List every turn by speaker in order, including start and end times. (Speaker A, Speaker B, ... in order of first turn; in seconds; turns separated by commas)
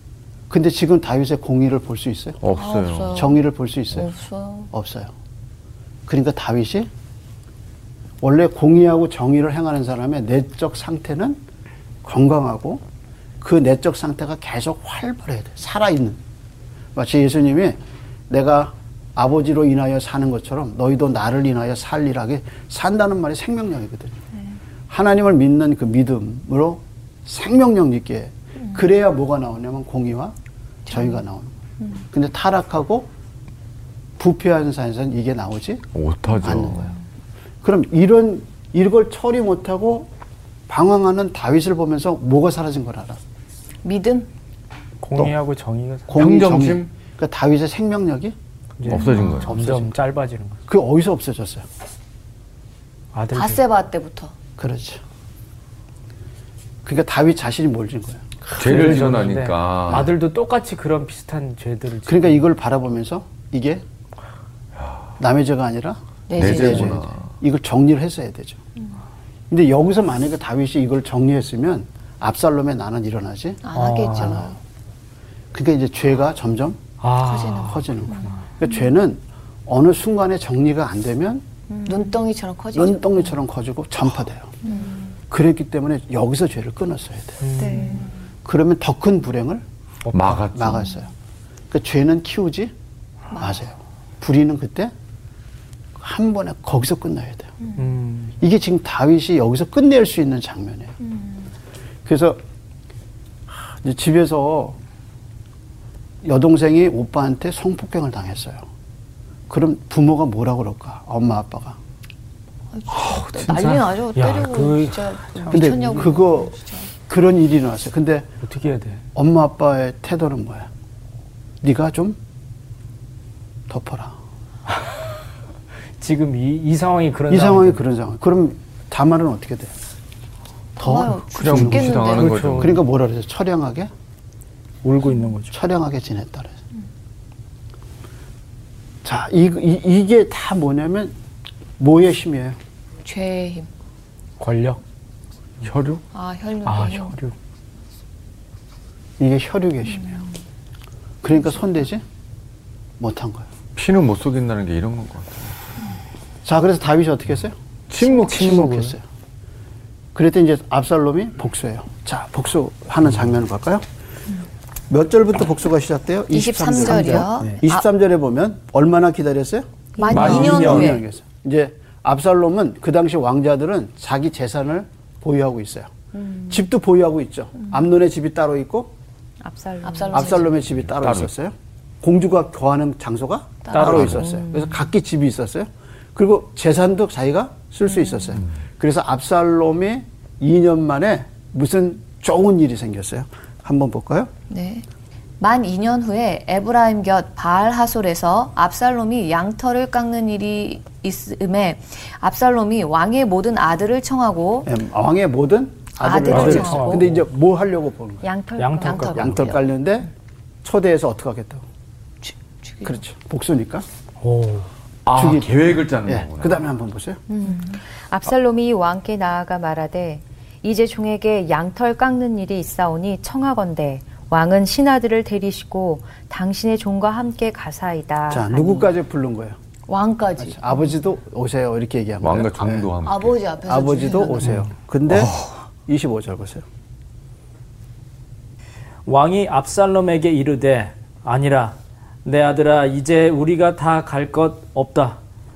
Speaker A: 0.5-2.4, Speaker B: 2.4-3.3, Speaker C: 2.5-3.4, Speaker A: 3.1-4.1, Speaker C: 3.9-4.7, Speaker A: 4.7-5.1, Speaker A: 6.1-6.9, Speaker A: 8.2-11.4, Speaker A: 12.0-12.8, Speaker A: 13.4-16.2, Speaker A: 16.9-24.2, Speaker A: 24.9-30.4, Speaker C: 30.9-31.2, Speaker A: 30.9-31.6, Speaker A: 32.1-33.1, Speaker A: 34.2-35.9, Speaker B: 36.0-36.9, Speaker A: 36.4-37.0, Speaker A: 37.6-40.1, Speaker A: 40.7-43.2, Speaker C: 43.8-44.3, Speaker D: 45.0-46.2, Speaker A: 46.1-48.4, Speaker B: 46.1-46.9, Speaker D: 48.8-50.6, Speaker B: 48.9-49.6, Speaker A: 48.9-50.0, Speaker C: 49.0-49.5, Speaker A: 50.7-51.6, Speaker D: 53.1-53.6, Speaker C: 53.3-54.3, Speaker A: 54.6-55.0, Speaker A: 56.8-59.2, Speaker D: 58.5-62.4, Speaker B: 58.6-60.1, Speaker A: 62.1-63.8, Speaker A: 65.2-68.6, Speaker C: 66.3-67.0, Speaker B: 66.4-67.3, Speaker A: 69.5-73.6, Speaker C: 73.6-74.6, Speaker D: 73.7-74.5, Speaker A: 75.5-76.8, Speaker D: 77.0-78.4, Speaker C: 77.2-78.3, Speaker A: 77.6-81.5, Speaker C: 81.8-83.2, Speaker A: 82.7-84.5, Speaker C: 84.6-85.1, Speaker A: 85.3-87.4, Speaker D: 87.4-88.0, Speaker C: 87.6-88.1, Speaker A: 88.5-89.6, Speaker D: 90.1-90.4, Speaker B: 90.1-90.8, Speaker A: 90.5-91.1, Speaker A: 91.7-92.7, Speaker C: 93.3-93.6, Speaker A: 93.4-94.9, Speaker A: 96.0-97.5, Speaker D: 97.8-98.3, Speaker A: 98.4-101.0, Speaker A: 102.0-102.4, Speaker A: 103.5-104.8, Speaker A: 106.2-108.6, Speaker A: 109.5-111.8, Speaker C: 112.7-116.9, Speaker B: 112.9-113.5, Speaker D: 113.5-116.0, Speaker A: 115.5-118.3, Speaker D: 118.4-119.0, Speaker A: 119.2-120.7, Speaker A: 121.6-122.2, Speaker A: 123.7-124.2, Speaker D: 124.7-125.0, Speaker D: 126.0-127.8, Speaker A: 127.3-129.7, Speaker C: 130.8-132.4, Speaker A: 130.8-133.9, Speaker B: 131.4-132.8, Speaker D: 132.2-132.8, Speaker D: 134.8-135.5, Speaker A: 135.5-136.5, Speaker A: 139.0-141.2, Speaker A: 141.8-142.6, Speaker C: 143.0-143.7, Speaker D: 144.4-144.8, Speaker B: 145.6-146.0, Speaker C: 146.1-147.2, Speaker D: 146.7-147.3, Speaker A: 149.2-150.2, Speaker A: 151.2-152.0, Speaker A: 153.0-153.5, Speaker B: 153.8-155.6, Speaker A: 156.4-159.0, Speaker D: 157.9-159.0, Speaker A: 160.2-163.9, Speaker A: 164.9-175.9, Speaker C: 166.3-167.8, Speaker E: 170.0-170.5, Speaker C: 170.0-171.0, Speaker B: 170.1-171.0, Speaker A: 176.5-178.9, Speaker E: 179.4-180.5, Speaker C: 179.8-180.6, Speaker A: 180.1-194.3, Speaker B: 180.7-181.3, Speaker C: 183.7-184.7, Speaker D: 183.7-184.2, Speaker B: 183.8-184.3, Speaker C: 188.0-188.3, Speaker C: 194.5-194.8, Speaker C: 195.4-204.7, Speaker A: 204.7-208.3, Speaker C: 206.0-207.1, Speaker D: 206.2-207.2, Speaker E: 208.2-209.6, Speaker D: 208.6-209.6, Speaker C: 208.8-209.2, Speaker A: 209.0-210.1, Speaker A: 210.6-211.6, Speaker C: 212.2-213.0, Speaker A: 212.8-213.9, Speaker D: 214.2-214.7, Speaker B: 215.1-216.7, Speaker A: 215.1-217.2, Speaker C: 217.3-217.8, Speaker E: 217.4-228.9, Speaker A: 228.3-229.6, Speaker C: 229.9-230.8, Speaker A: 230.4-232.9, Speaker B: 232.2-233.4, Speaker C: 233.0-234.6, Speaker A: 233.7-236.7, Speaker D: 234.4-234.7, Speaker B: 235.1-235.6, Speaker D: 239.1-245.2